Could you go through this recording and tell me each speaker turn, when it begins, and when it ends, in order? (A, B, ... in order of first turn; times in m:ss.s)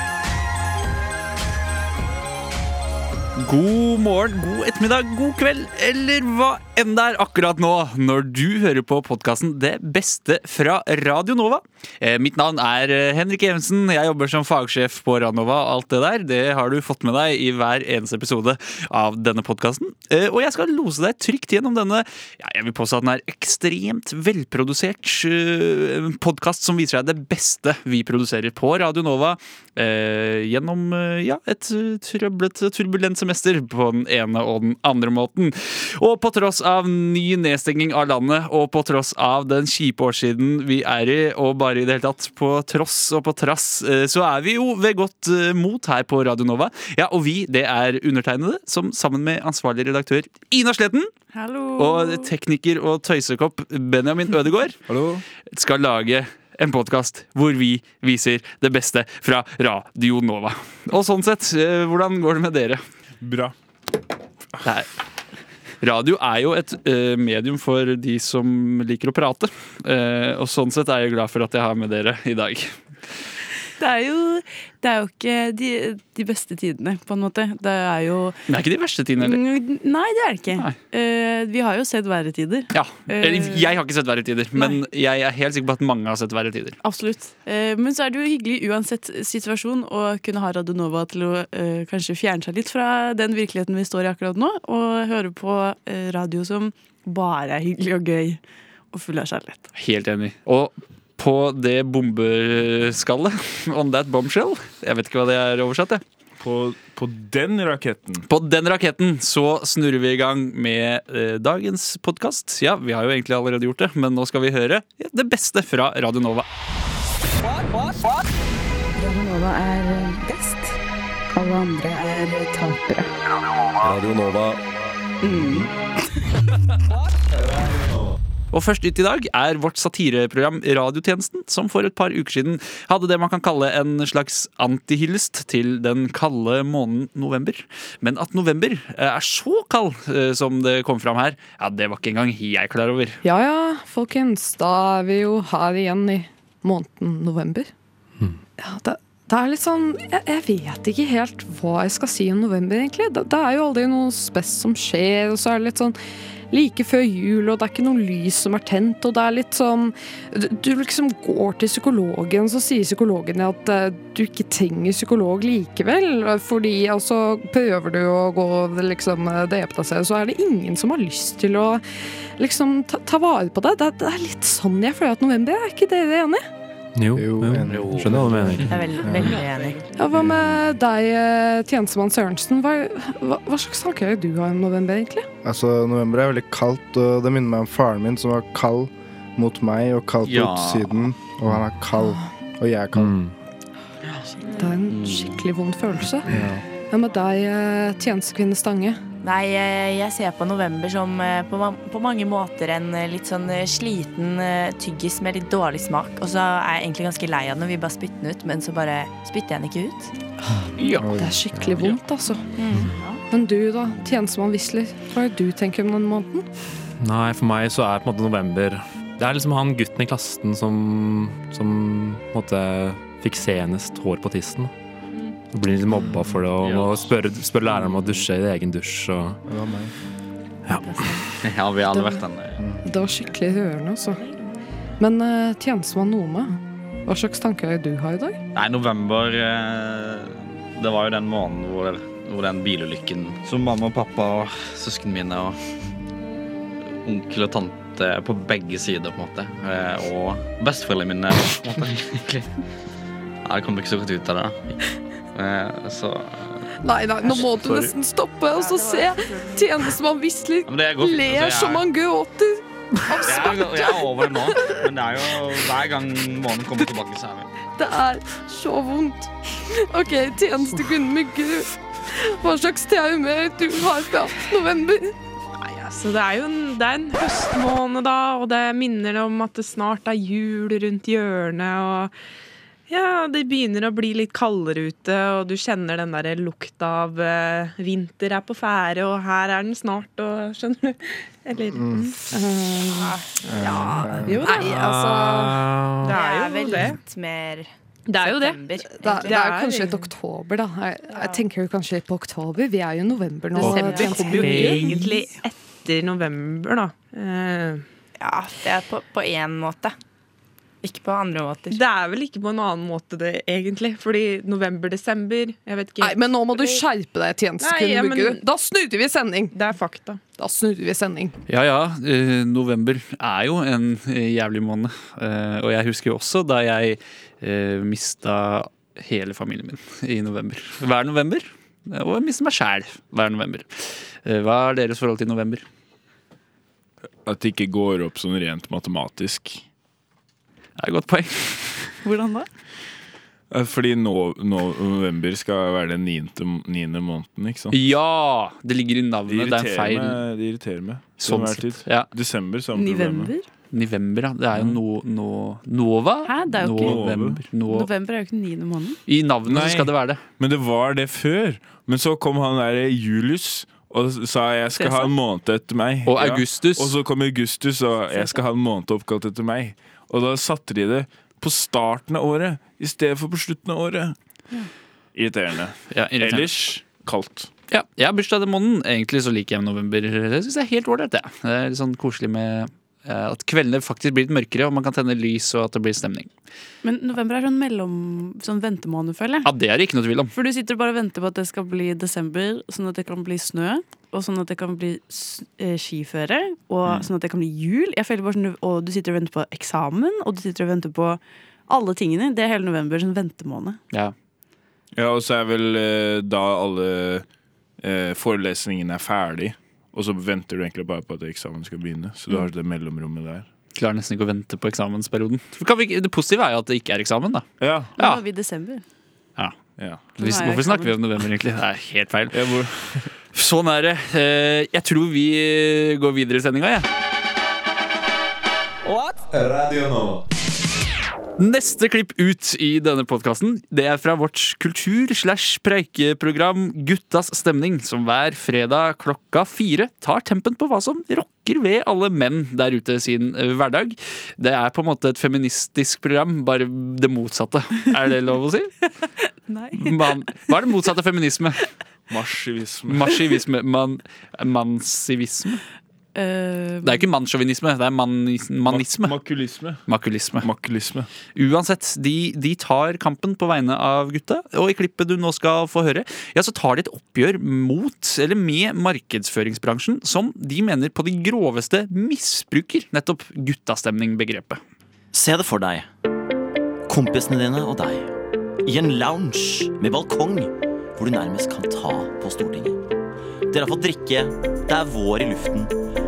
0:03.4-0:51.1 A
0:51.3-0:52.3 B
0:51.8-0:54.8 A
0:54.9-0:55.2 C
0:55.5-1:02.8 A
1:03.2-1:03.5 C
1:04.6-1:04.9 A
1:05.8-1:12.7 A
1:13.8-1:18.4 B
1:18.5-1:19.4 A
1:19.2-1:23.7 B
1:22.7-1:26.8 A
1:26.8-1:38.4 B
1:38.9-1:39.7 B
1:39.7-1:46.0 A
1:46.4-1:48.2 C
1:48.3-1:56.5 A
1:59.0-2:00.7 D
2:01.3-2:03.0 D
2:03.9-2:04.5 E
2:08.5-2:23.2 A
2:23.2-2:27.7 F
2:28.6-2:36.0 F
2:36.5-2:51.8 F
2:52.4-2:56.4 F
2:56.9-2:58.9 E
2:57.2-2:59.4 G
2:57.6-2:58.5 H
2:58.7-2:59.8 I
2:59.1-2:59.4 H
2:59.9-3:05.3 F
3:00.2-3:00.6 G
3:05.4-3:13.2 G
3:10.2-3:11.1 H
3:13.0-3:13.3 E
3:14.5-3:16.3 F
3:14.8-3:15.5 H
3:16.3-3:16.6 G
3:16.9-3:19.0 F
3:19.2-3:30.1 I
3:30.8-3:31.1 A
3:31.0-3:31.9 G
3:31.0-3:32.4 F
3:32.6-3:33.2 I
3:33.3-3:36.4 F
3:37.0-3:44.7 E
3:45.5-3:49.4 E
3:46.6-3:48.3 H
3:49.4-3:49.9 G
3:50.6-3:51.1 E
3:51.4-3:52.7 H
3:51.9-3:52.2 F
3:52.8-3:54.2 F
3:55.0-3:58.4 F
3:58.5-4:05.6 H
4:07.0-4:12.5 H
4:13.4-4:14.8 H
4:15.3-4:16.7 H
4:16.8-4:24.7 F
4:17.2-4:18.0 H
4:18.8-4:19.6 B
4:20.6-4:21.9 H
4:23.1-4:27.5 H
4:27.8-4:35.2 F
4:35.6-4:42.1 J
4:42.9-4:52.2 J
4:51.7-4:52.1 G
4:52.3-4:53.2 F
4:53.0-4:53.7 I
4:53.4-4:54.5 G
4:53.7-4:55.7 F
4:54.3-4:54.9 J
4:54.3-4:54.8 I
4:56.0-4:57.0 J
4:56.1-4:59.4 I
4:58.1-5:00.1 J
4:59.0-5:04.9 F
5:01.1-5:01.4 I
5:03.5-5:07.8 J
5:03.7-5:04.2 I
5:08.2-5:09.9 I
5:10.8-5:11.8 I
5:11.7-5:16.8 J
5:16.0-5:19.5 F
5:17.6-5:18.4 J
5:19.5-5:20.2 J
5:20.4-5:21.3 F
5:21.5-5:35.6 A
5:37.2-5:39.6 C
5:40.8-5:41.9 A
5:42.0-5:42.5 B
5:43.5-5:47.8 C
5:47.7-5:50.2 A
5:49.3-5:53.3 C
5:51.2-5:52.1 A
5:52.7-5:53.5 B
5:53.7-5:57.9 A
5:56.2-5:57.1 B
5:56.7-5:57.4 C
5:57.6-5:59.0 B
5:59.1-6:00.2 A
5:59.4-6:14.2 C
6:04.8-6:05.2 B
6:06.0-6:06.9 A
6:08.1-6:08.4 B
6:15.1-6:17.5 C
6:15.9-6:16.8 A
6:17.7-6:26.3 A
6:26.8-6:29.5 B
6:29.4-6:30.3 A
6:30.3-6:43.8 B
6:44.9-6:47.2 C
6:47.8-6:53.4 C
6:53.7-6:58.2 A
6:57.6-6:57.9 C
6:58.0-6:58.8 B
6:59.8-7:00.1 C
7:00.2-7:02.4 A
7:00.2-7:00.9 B
7:02.3-7:03.0 C
7:03.3-7:06.9 A
7:11.4-7:28.7 A
7:29.5-7:30.1 B
7:29.7-7:31.6 A
7:32.1-7:33.1 C
7:32.9-7:35.6 A
7:36.1-7:37.0 B
7:36.8-7:39.2 A
7:38.6-7:39.8 C
7:39.8-7:40.5 A
7:40.4-7:41.1 C
7:41.3-7:54.6 A
7:55.1-7:55.8 K
7:56.9-7:58.1 K
7:58.6-8:02.8 K
8:03.5-8:05.7 K